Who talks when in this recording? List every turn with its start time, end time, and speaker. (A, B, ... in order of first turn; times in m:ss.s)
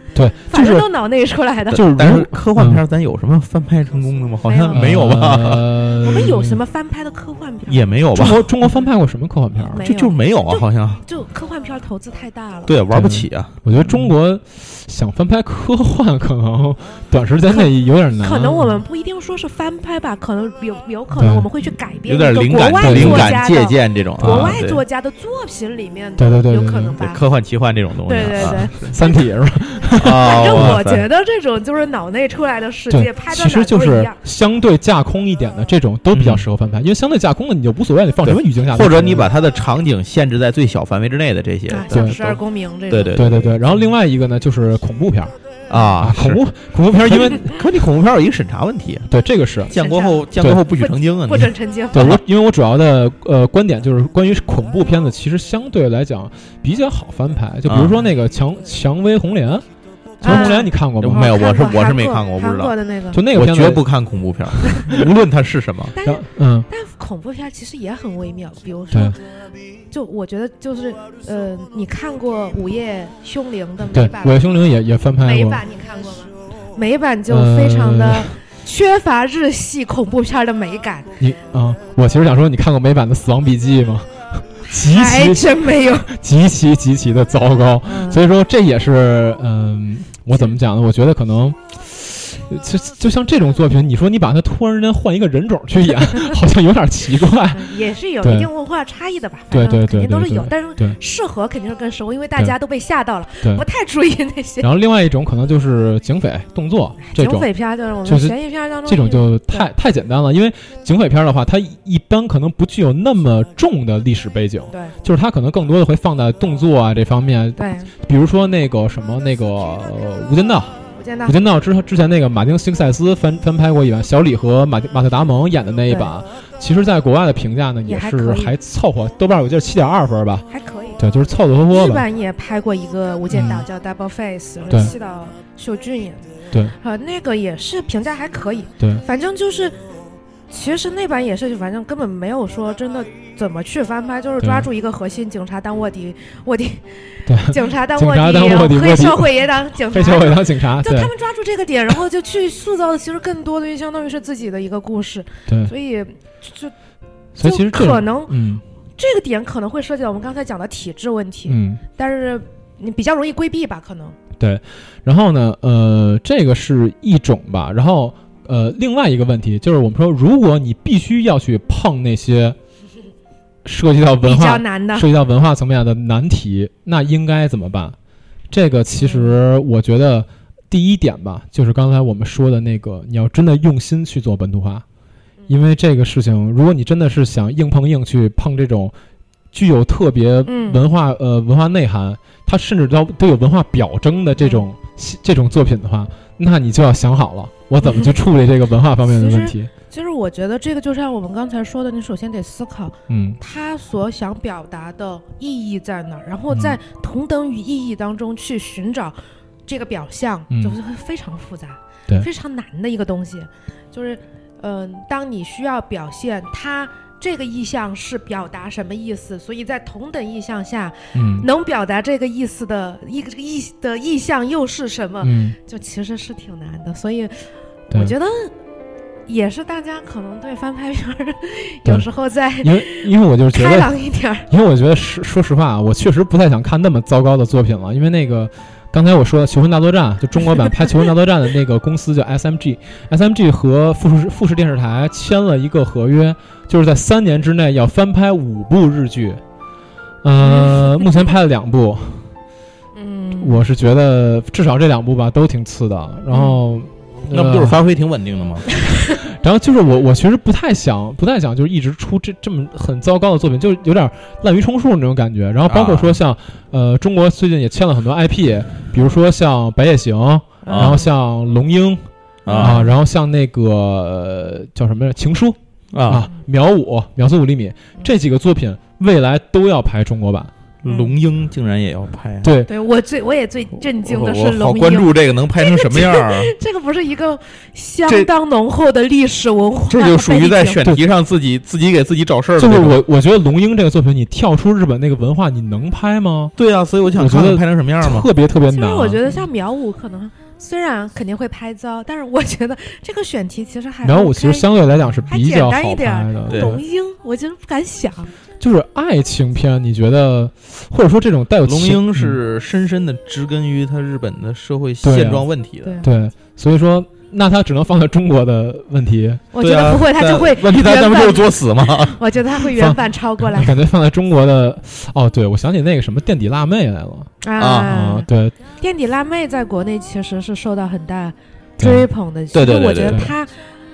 0:00.2-0:00.9 A
0:00.3-0:01.8 B
0:01.7-0:05.7 C
0:01.7-0:02.8 A
0:04.5-0:05.2 B
0:04.7-0:06.6 A
0:06.0-0:07.9 B
0:07.7-0:08.4 C
0:08.1-0:09.9 A
0:09.7-0:12.8 B
0:09.8-0:11.0 C
0:12.7-0:14.0 C
0:12.9-0:18.8 A
0:17.5-0:27.2 B
0:21.2-0:21.5 A
0:22.1-0:24.8 C
0:22.8-0:23.4 A
0:24.2-0:24.6 A
0:26.2-0:27.0 A
0:27.0-0:28.9 C
0:28.1-0:29.2 B
0:28.4-0:30.8 A
0:30.0-0:31.0 C
0:30.0-0:34.2 B
0:32.9-0:39.3 A
0:36.1-0:36.4 C
0:38.2-0:43.6 C
0:41.7-0:43.2 B
0:43.1-0:45.3 A
0:45.7-0:46.4 C
0:46.0-0:47.6 A
0:47.1-0:49.1 C
0:49.1-0:49.7 A
0:49.7-0:52.2 C
0:49.8-0:52.2 B
0:51.9-0:59.7 A
0:57.7-0:58.0 C
1:00.2-1:03.2 B
1:00.2-1:01.3 A
1:00.2-1:02.7 C
1:03.1-1:03.8 A
1:03.3-1:05.9 C
1:05.9-1:09.2 B
1:06.0-1:06.7 A
1:09.9-1:14.5 B
1:13.9-1:15.6 A
1:15.2-1:21.1 B
1:17.3-1:18.3 A
1:21.2-1:38.5 A
1:24.7-1:26.1 B
1:27.8-1:28.2 B
1:37.5-1:44.7 B
1:39.5-1:41.0 A
1:44.6-1:47.5 A
1:47.0-1:49.7 B
1:48.0-2:10.5 A
1:57.6-1:57.9 B
2:01.0-2:01.4 B
2:07.8-2:08.5 B
2:10.5-2:11.0 B
2:11.0-2:12.0 A
2:11.7-2:19.8 B
2:13.3-2:13.6 A
2:18.8-2:19.0 A
2:20.5-2:36.7 B
2:24.4-2:24.7 A
2:27.3-2:29.3 A
2:29.8-2:31.1 A
2:37.4-2:38.6 A
2:37.4-2:38.4 B
2:39.0-2:44.2 B
2:41.5-2:41.8 A
2:44.4-2:52.6 A
2:53.6-2:58.0 A
2:54.2-2:55.1 B
2:58.5-3:04.8 A
2:59.0-2:59.4 B
3:05.5-3:08.9 A
3:09.5-3:19.7 A
3:10.5-3:10.8 B
3:14.4-3:14.6 B
3:17.8-3:18.2 B
3:19.0-3:48.5 B
3:23.1-3:23.4 A
3:26.5-3:26.8 A
3:30.5-3:30.8 A
3:41.1-3:41.5 A
3:45.2-3:45.6 A
3:49.3-3:54.5 B
3:52.6-3:53.9 A
3:54.5-4:09.4 A
4:10.2-4:12.3 A
4:10.4-4:11.1 B
4:13.0-4:13.6 B
4:13.4-4:17.8 A
4:16.3-4:16.6 B
4:17.2-4:18.7 C
4:19.2-4:32.1 A
4:25.7-4:26.2 C
4:30.6-4:31.1 B
4:30.7-4:31.0 C
4:32.5-4:32.9 C
4:32.5-4:32.9 B
4:32.6-4:40.5 A
4:35.9-4:36.3 C
4:40.8-4:42.5 C
4:40.9-4:41.1 B
4:42.4-4:42.7 A
4:42.7-4:50.8 B
4:44.0-4:46.5 C
4:49.9-4:53.0 C
4:52.6-4:56.5 A
4:56.6-4:58.3 C
4:57.1-4:59.3 A
4:58.7-5:04.7 B
5:04.0-5:06.8 A
5:05.3-5:08.3 B
5:06.5-5:06.8 C
5:08.6-5:12.4 A
5:11.7-5:16.0 C
5:15.0-5:15.5 A
5:15.8-5:16.1 B
5:16.0-5:19.4 A
5:19.5-5:23.7 B
5:19.6-5:22.2 C
5:23.5-5:28.6 A
5:27.4-5:33.6 B
5:27.6-5:27.9 C
5:31.8-5:32.1 A
5:32.5-5:33.3 C
5:33.1-5:33.3 A